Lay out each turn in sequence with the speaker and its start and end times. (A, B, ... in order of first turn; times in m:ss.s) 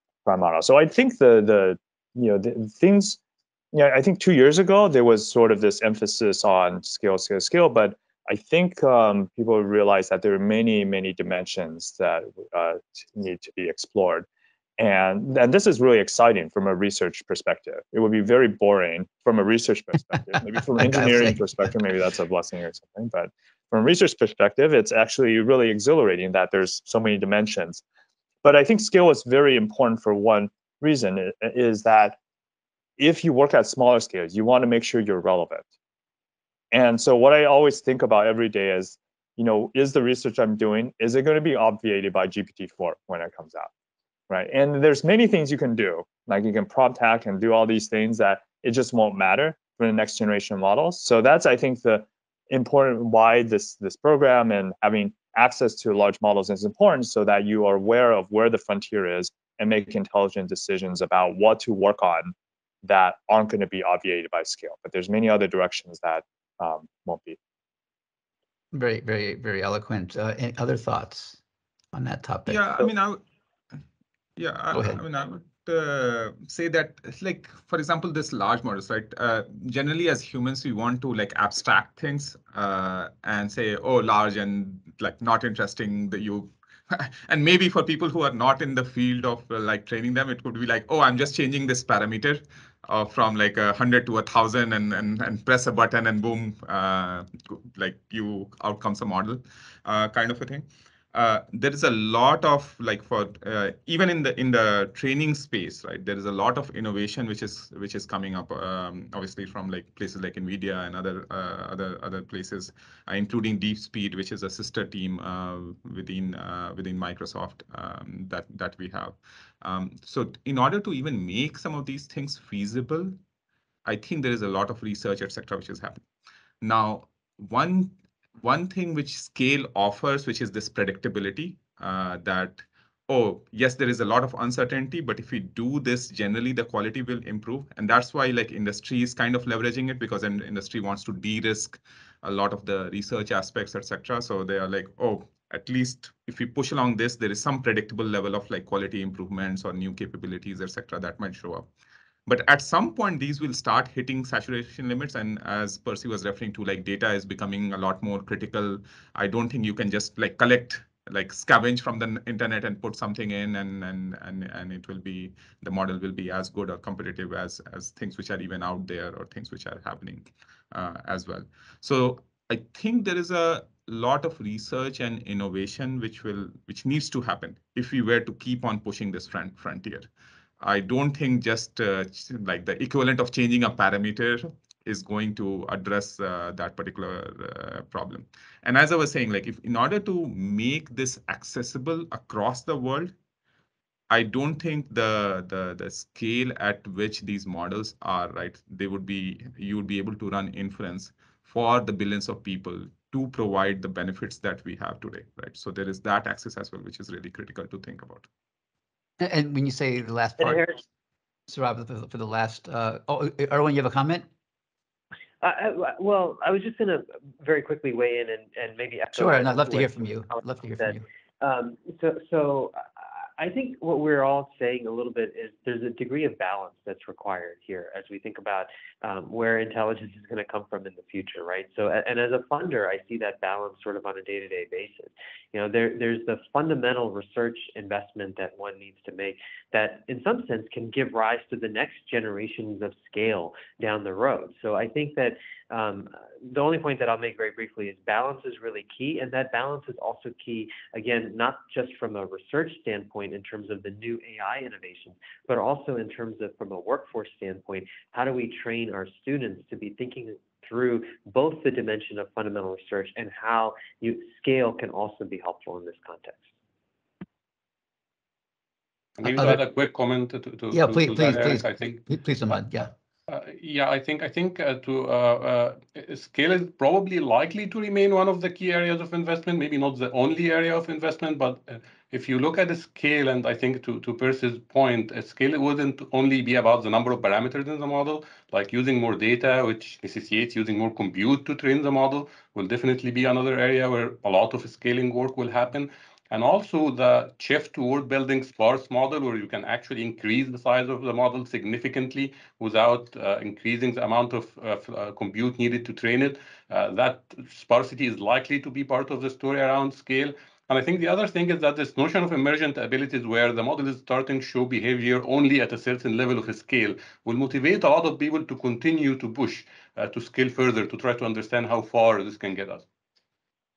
0:00.2-0:03.2 A
0:03.7-0:14.2 A
0:14.8-0:27.8 A
0:20.8-0:21.4 B
0:28.4-0:32.2 A
0:33.0-0:35.6 A
0:36.7-0:43.7 A
0:44.3-1:07.4 A
1:08.7-1:11.4 B
1:11.9-1:12.9 B
1:12.5-1:13.2 C
1:14.4-2:03.2 C
1:14.7-1:15.0 B
2:03.8-2:06.0 C
2:06.6-2:31.7 C
2:32.3-3:00.1 C
3:00.6-3:13.1 C
3:14.1-3:28.3 C
3:29.2-3:30.8 B
3:30.4-3:30.8 D
3:31.5-3:34.2 B
3:35.4-3:42.8 D
3:39.1-3:41.0 B
3:43.4-4:26.5 D
4:29.2-4:32.0 E
4:29.2-4:29.6 B
4:30.7-4:32.9 B
4:33.3-5:22.8 E